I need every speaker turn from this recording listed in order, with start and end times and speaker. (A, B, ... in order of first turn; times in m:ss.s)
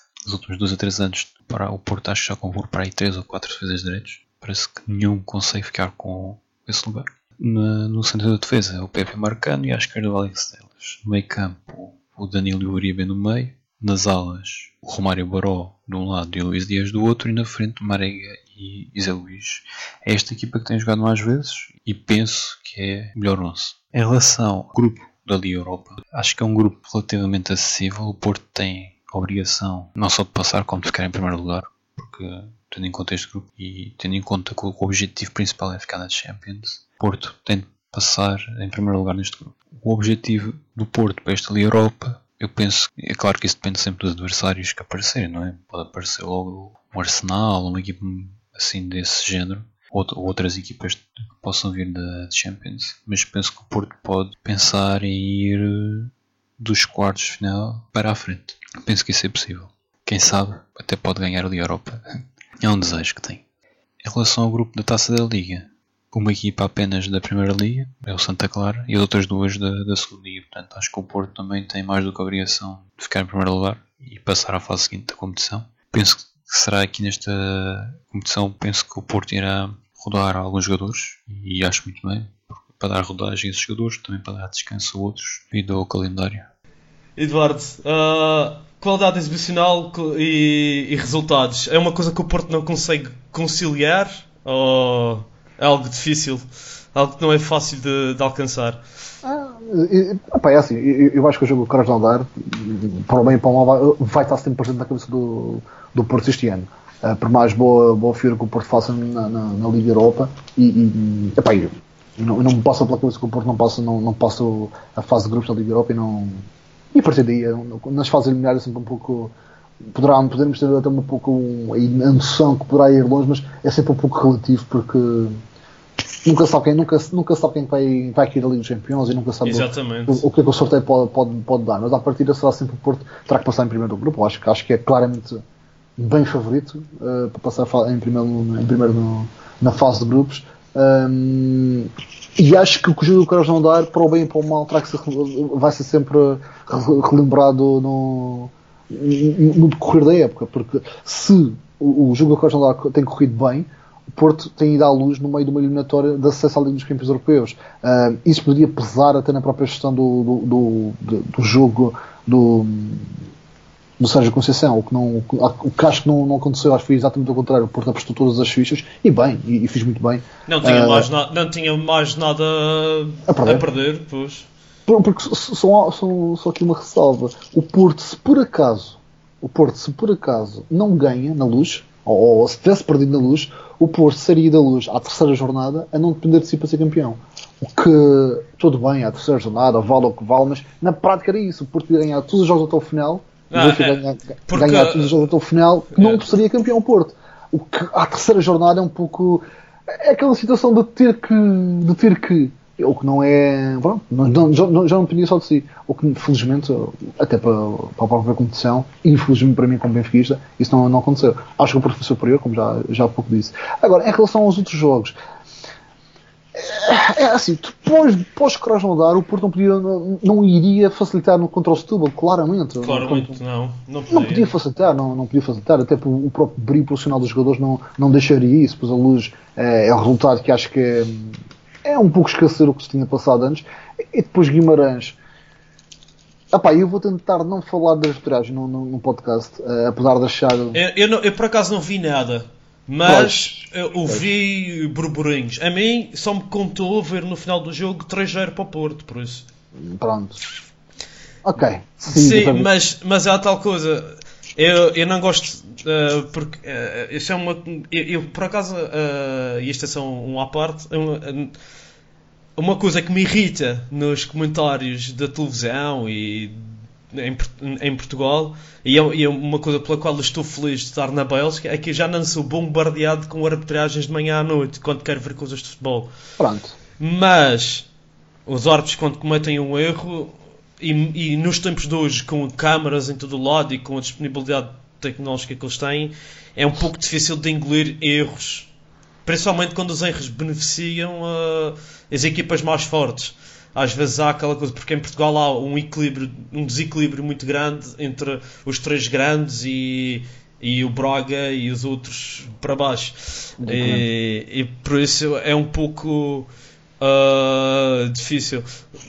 0:00.2-1:03.4 A
1:04.0-1:26.5 A
1:27.2-1:36.4 B
1:36.9-1:38.8 B
1:39.2-1:59.3 C
1:59.9-2:05.4 C
2:06.2-2:15.4 C
2:09.4-2:10.2 B
2:16.0-2:43.1 C
2:44.0-2:51.1 C
2:50.5-2:54.5 B
2:53.3-2:53.6 C
2:54.9-3:35.2 C
3:13.5-3:15.2 B
3:16.0-3:16.2 B
3:36.5-3:43.4 C
3:42.8-3:44.5 B
3:44.1-3:55.2 C
3:56.5-4:00.8 C
4:00.7-4:09.5 B
4:03.0-4:04.3 C
4:09.8-4:10.4 C
4:11.4-4:12.7 C
4:12.1-4:21.6 B
4:22.6-4:36.1 B
4:36.4-4:36.8 C
4:37.0-4:37.9 B
4:38.5-4:48.7 B
4:49.3-5:06.5 B
5:03.6-5:04.1 C
5:07.0-5:08.7 B